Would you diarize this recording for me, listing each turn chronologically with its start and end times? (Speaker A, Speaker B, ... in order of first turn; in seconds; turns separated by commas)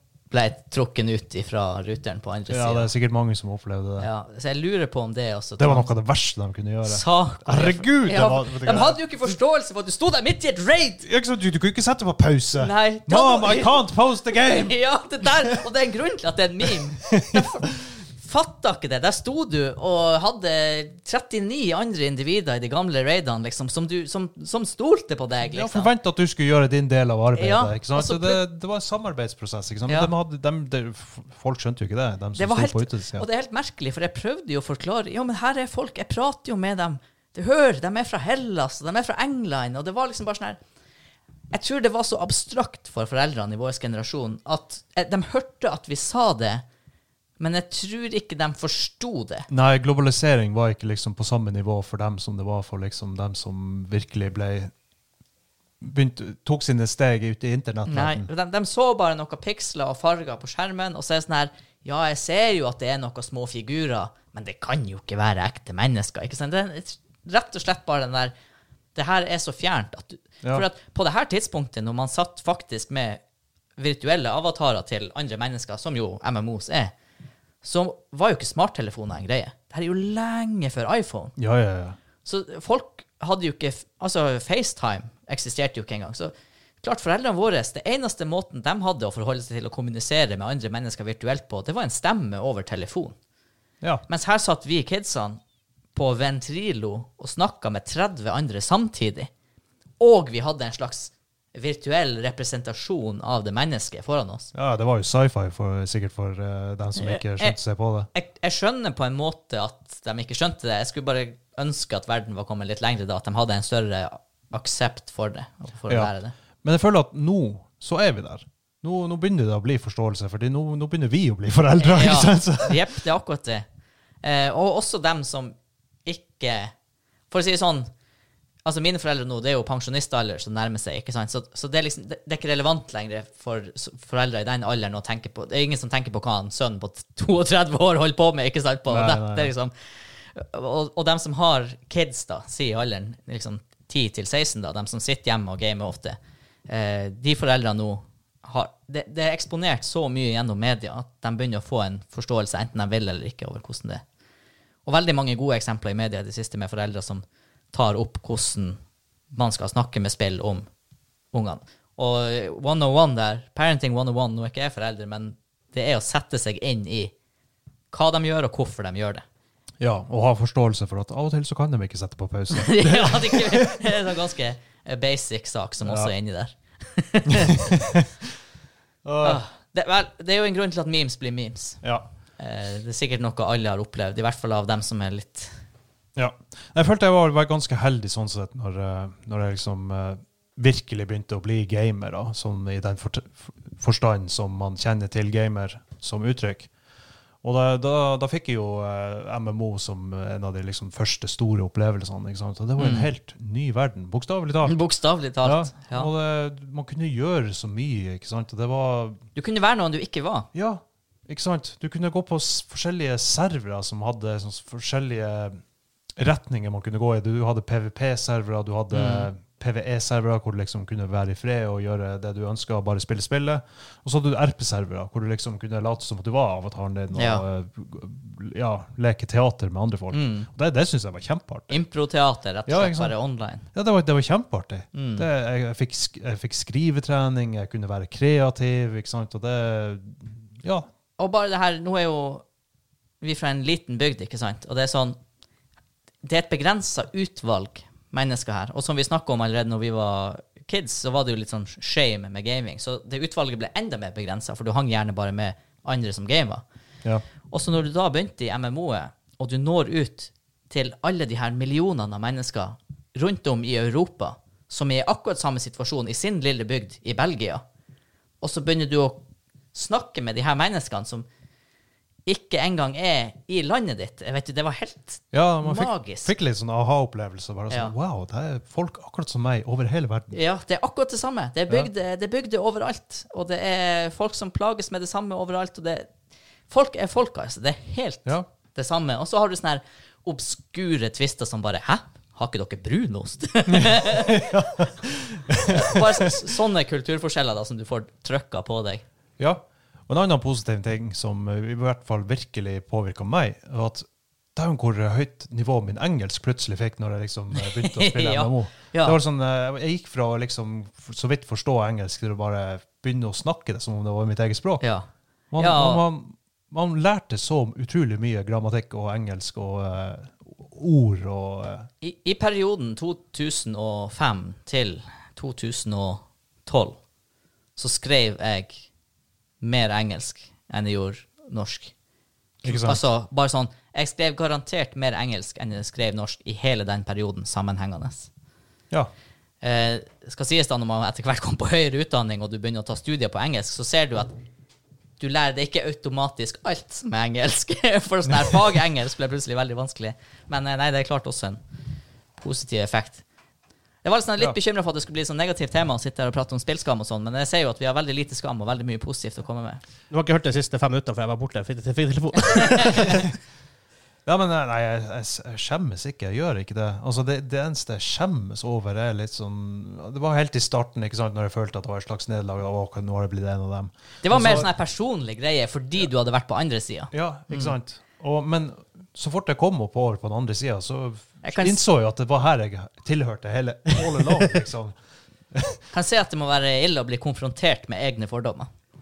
Speaker A: 0.3-2.9, Speaker B: 2.5-4.1, Speaker A: 4.0-5.9, Speaker B: 5.6-9.0, Speaker A: 6.9-11.1, Speaker B: 11.0-14.8, Speaker A: 12.6-13.8, Speaker A: 14.4-25.9, Speaker B: 17.1-17.5, Speaker B: 25.5-33.2, Speaker A: 27.3-28.4, Speaker A: 32.4-40.6, Speaker A: 41.5-46.6, Speaker A: 47.4-49.5, Speaker B: 49.5-54.7, Speaker B: 55.8-58.3, Speaker A: 57.9-68.3, Speaker A: 68.9-73.2, Speaker A: 73.8-76.9, Speaker A: 77.6-81.3, Speaker B: 81.4-82.0, Speaker A: 82.2-93.2, Speaker A: 94.1-95.4, Speaker A: 95.9-99.3, Speaker A: 100.0-104.5, Speaker B: 104.5-108.1, Speaker A: 107.0-107.5, Speaker A: 108.1-116.3, Speaker B: 116.6-122.8, Speaker A: 121.8-123.6, Speaker A: 124.2-126.7, Speaker A: 127.3-127.9, Speaker A: 128.6-139.7, Speaker B: 138.9-139.5, Speaker A: 140.3-154.0, Speaker A: 154.9-158.8, Speaker A: 159.3-160.7, Speaker A: 161.3-167.1, Speaker A: 167.9-169.2, Speaker B: 169.8-173.9, Speaker A: 172.5-177.8, Speaker B: 175.8-176.1, Speaker B: 177.3-178.1, Speaker B: 179.1-179.4, Speaker A: 179.2-181.8, Speaker A: 182.4-185.5, Speaker B: 186.2-196.7, Speaker B: 197.4-204.8, Speaker A: 202.8-203.1, Speaker A: 204.6-206.1, Speaker B: 205.4-209.2, Speaker A: 209.3-210.5, Speaker B: 210.5-215.6, Speaker B: 216.2-231.8, Speaker A: 218.9-219.3, Speaker A: 227.1-227.4, Speaker A: 230.1-230.5, Speaker A: 231.7-233.7, Speaker B: 232.7-233.2, Speaker B: 233.7-240.9, Speaker A: 234.9-235.2, Speaker A: 241.2-242.4, Speaker A: 243.2-245.2, Speaker A: 246.2-256.6, Speaker A: 257.5-267.6, Speaker A: 268.4-271.3, Speaker A: 272.2-276.3, Speaker B: 275.3-280.4, Speaker A: 280.3-286.1, Speaker A: 286.7-294.5, Speaker B: 293.7-296.1, Speaker A: 295.6-299.0, Speaker B: 299.4-314.8, Speaker A: 307.6-309.2, Speaker A: 314.8-316.0, Speaker B: 315.5-321.9, Speaker A: 322.0-327.0, Speaker A: 327.8-328.9, Speaker A: 329.6-331.9, Speaker A: 332.6-338.3, Speaker B: 332.6-333.0, Speaker A: 339.6-344.3, Speaker A: 345.2-351.6, Speaker A: 352.4-353.2, Speaker A: 354.0-359.8, Speaker C: 360.1-363.3, Speaker A: 362.6-363.1, Speaker B: 364.2-374.7, Speaker A: 374.2-377.7, Speaker B: 377.1-384.9, Speaker A: 381.4-381.8, Speaker B: 385.5-385.8, Speaker A: 385.9-388.7